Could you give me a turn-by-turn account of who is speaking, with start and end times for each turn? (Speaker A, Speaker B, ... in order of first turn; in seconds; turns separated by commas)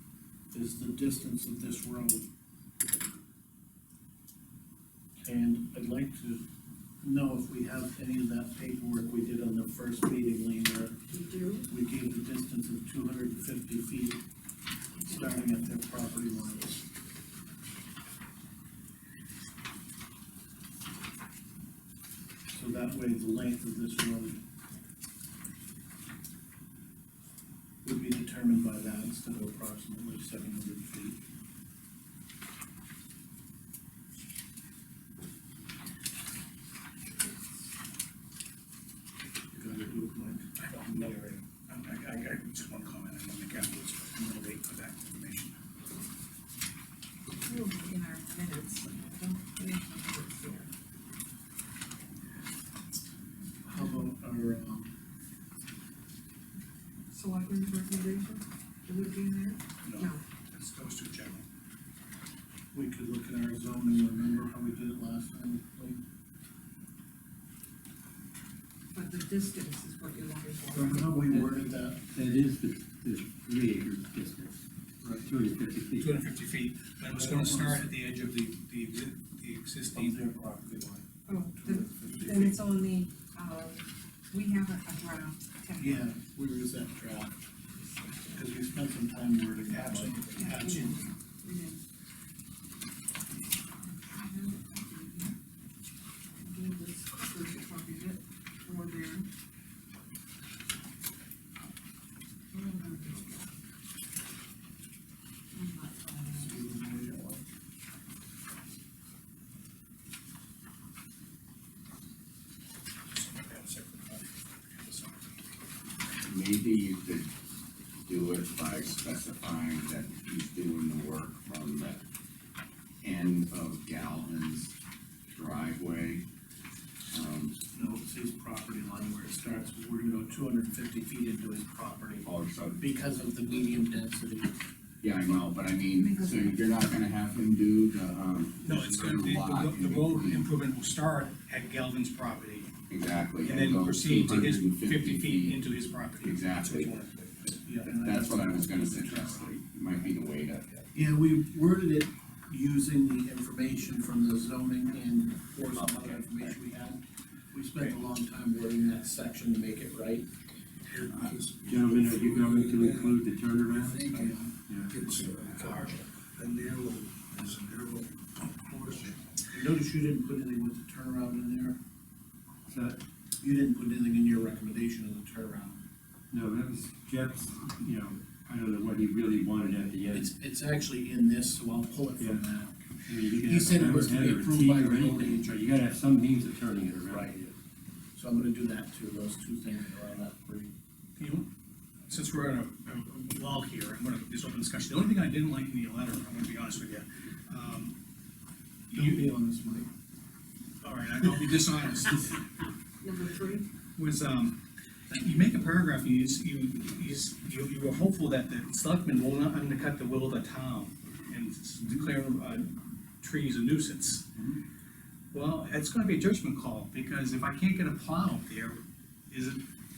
Speaker A: 0.5-2.2, Speaker A: 5.2-6.4, Speaker A: 7.0-11.0, Speaker B: 11.1-11.7, Speaker A: 11.7-14.2, Speaker A: 15.1-16.8, Speaker B: 15.1-15.3, Speaker A: 22.5-24.4, Speaker A: 27.8-31.2, Speaker A: 39.5-41.1, Speaker C: 40.6-45.6, Speaker B: 47.4-50.7, Speaker A: 53.6-54.9, Speaker B: 57.1-60.2, Speaker C: 59.8-61.4, Speaker A: 62.7-66.0, Speaker B: 68.9-71.2, Speaker A: 70.7-72.0, Speaker D: 71.2-71.5, Speaker D: 72.1-74.6, Speaker A: 75.0-75.3, Speaker D: 75.2-76.1, Speaker C: 76.0-80.2, Speaker A: 77.1-77.9, Speaker A: 79.9-82.6, Speaker B: 81.3-86.0, Speaker A: 85.8-87.4, Speaker B: 88.0-88.4, Speaker A: 88.3-91.0, Speaker C: 89.7-91.0, Speaker B: 90.4-91.8, Speaker B: 93.8-95.3, Speaker B: 96.4-99.3, Speaker B: 102.5-103.5, Speaker B: 105.5-106.7, Speaker A: 106.4-107.4, Speaker C: 113.1-115.3, Speaker E: 116.2-117.3, Speaker E: 118.1-122.0, Speaker E: 123.0-124.8, Speaker E: 125.3-126.2, Speaker E: 127.1-127.5, Speaker A: 127.7-132.3, Speaker E: 132.2-132.8, Speaker A: 132.8-134.5, Speaker E: 135.0-140.5, Speaker B: 136.0-136.6, Speaker C: 138.6-142.7, Speaker E: 142.9-145.6, Speaker C: 143.4-147.9, Speaker E: 146.2-146.9, Speaker A: 147.7-149.5, Speaker E: 148.0-150.9, Speaker A: 150.9-157.0, Speaker E: 155.8-156.4, Speaker A: 157.5-160.3, Speaker F: 160.9-163.2, Speaker D: 161.6-164.9, Speaker A: 163.7-164.5, Speaker F: 164.9-169.2, Speaker A: 169.5-171.8, Speaker D: 172.7-173.0, Speaker A: 173.4-175.8, Speaker D: 176.3-180.3, Speaker A: 180.1-182.9, Speaker D: 182.2-182.5, Speaker D: 183.1-187.6, Speaker A: 183.4-185.6, Speaker A: 187.1-187.4, Speaker A: 188.2-190.7, Speaker C: 191.2-191.5, Speaker C: 192.1-197.9, Speaker C: 198.9-199.3, Speaker A: 198.9-199.9, Speaker C: 200.8-202.4, Speaker B: 203.0-203.7, Speaker C: 204.0-204.6, Speaker C: 205.1-214.3, Speaker C: 215.3-219.6